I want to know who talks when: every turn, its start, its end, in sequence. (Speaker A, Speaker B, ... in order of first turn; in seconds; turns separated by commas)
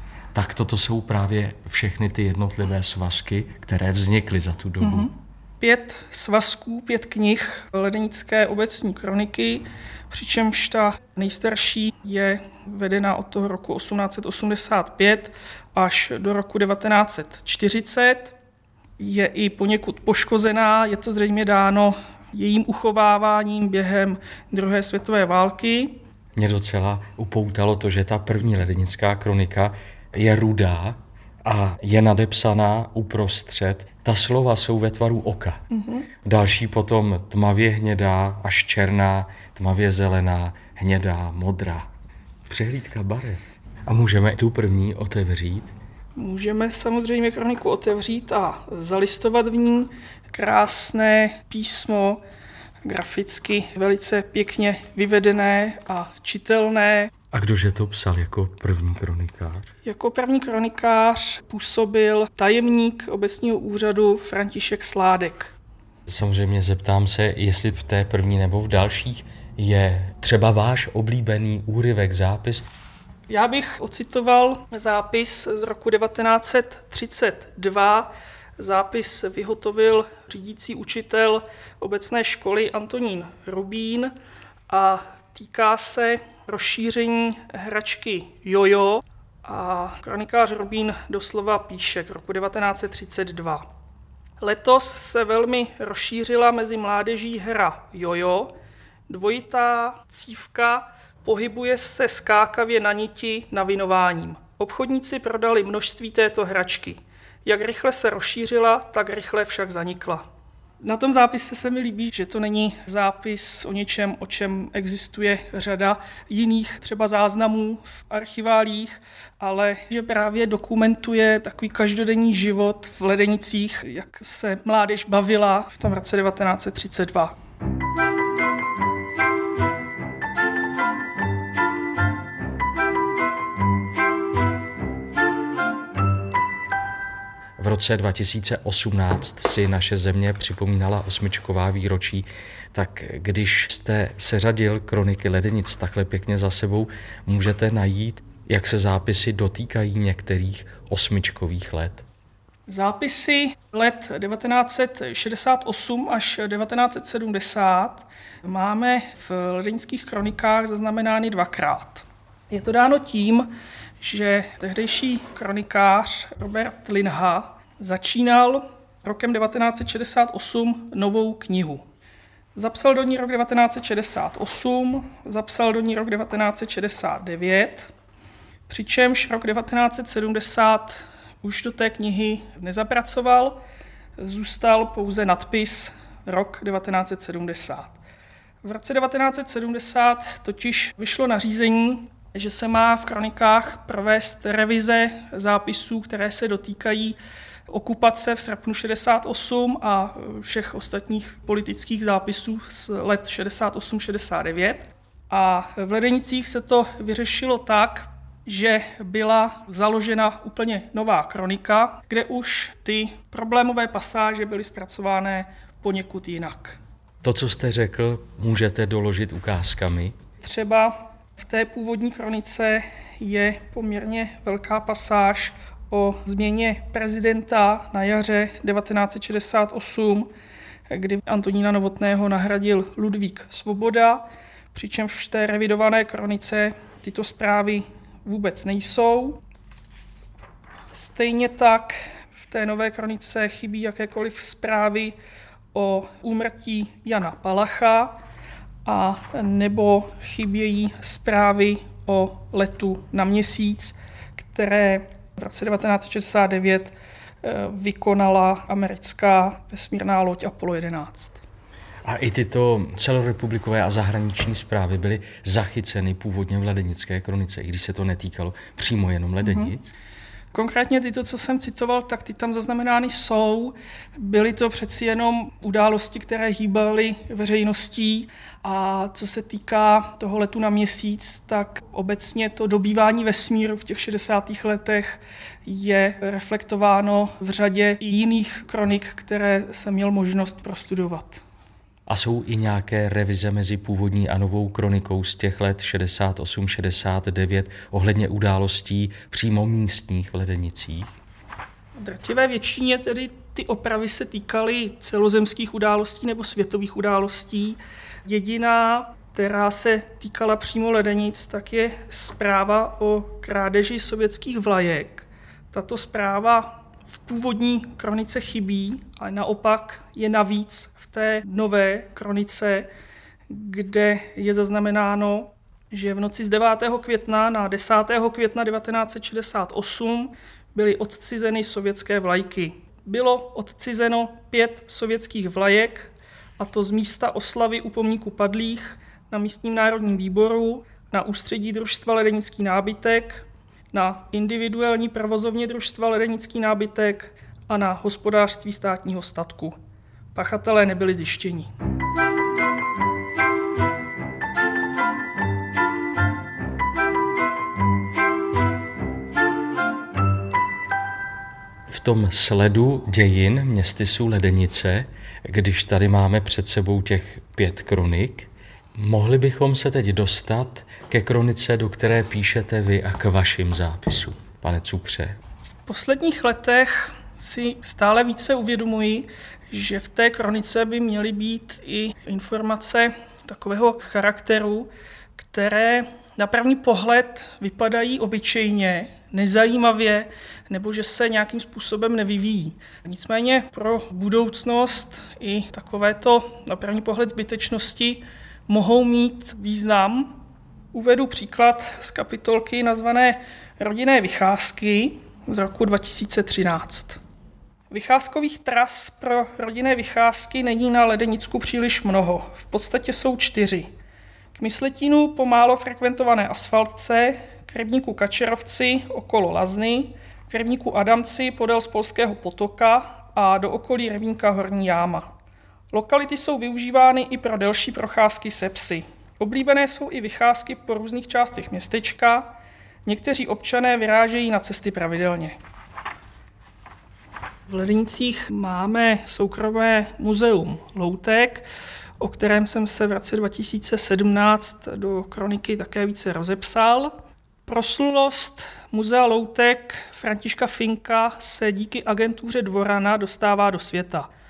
Speaker A: 0.3-5.1, Speaker B: 4.8-18.4, Speaker B: 19.0-26.0, Speaker A: 26.4-35.6, Speaker B: 35.7-36.1, Speaker A: 36.2-41.9, Speaker A: 42.5-45.7, Speaker B: 46.2-52.2, Speaker B: 52.9-57.1, Speaker A: 57.3-59.7, Speaker B: 59.8-65.5, Speaker A: 66.1-72.6, Speaker B: 73.3-84.1, Speaker B: 84.7-93.7, Speaker B: 94.4-98.5, Speaker B: 99.1-110.2, Speaker B: 110.8-127.3, Speaker A: 137.6-152.1, Speaker B: 152.7-171.8, Speaker B: 172.6-177.9, Speaker B: 178.7-183.6, Speaker B: 184.2-188.0, Speaker B: 188.6-216.8, Speaker A: 217.2-220.2, Speaker B: 220.4-230.3, Speaker B: 230.9-239.4, Speaker B: 240.9-245.2, Speaker B: 245.7-248.2, Speaker B: 248.8-261.4, Speaker A: 262.1-269.9, Speaker B: 269.4-269.7, Speaker B: 270.5-291.4, Speaker A: 292.1-301.1, Speaker B: 302.0-322.9, Speaker B: 323.5-349.8, Speaker B: 350.3-351.7, Speaker A: 361.9-375.4, Speaker B: 375.9-400.3, Speaker B: 400.9-407.2, Speaker B: 407.9-413.9, Speaker B: 414.5-425.3, Speaker B: 425.9-432.5, Speaker B: 433.1-435.6, Speaker B: 437.7-441.7, Speaker B: 442.2-454.3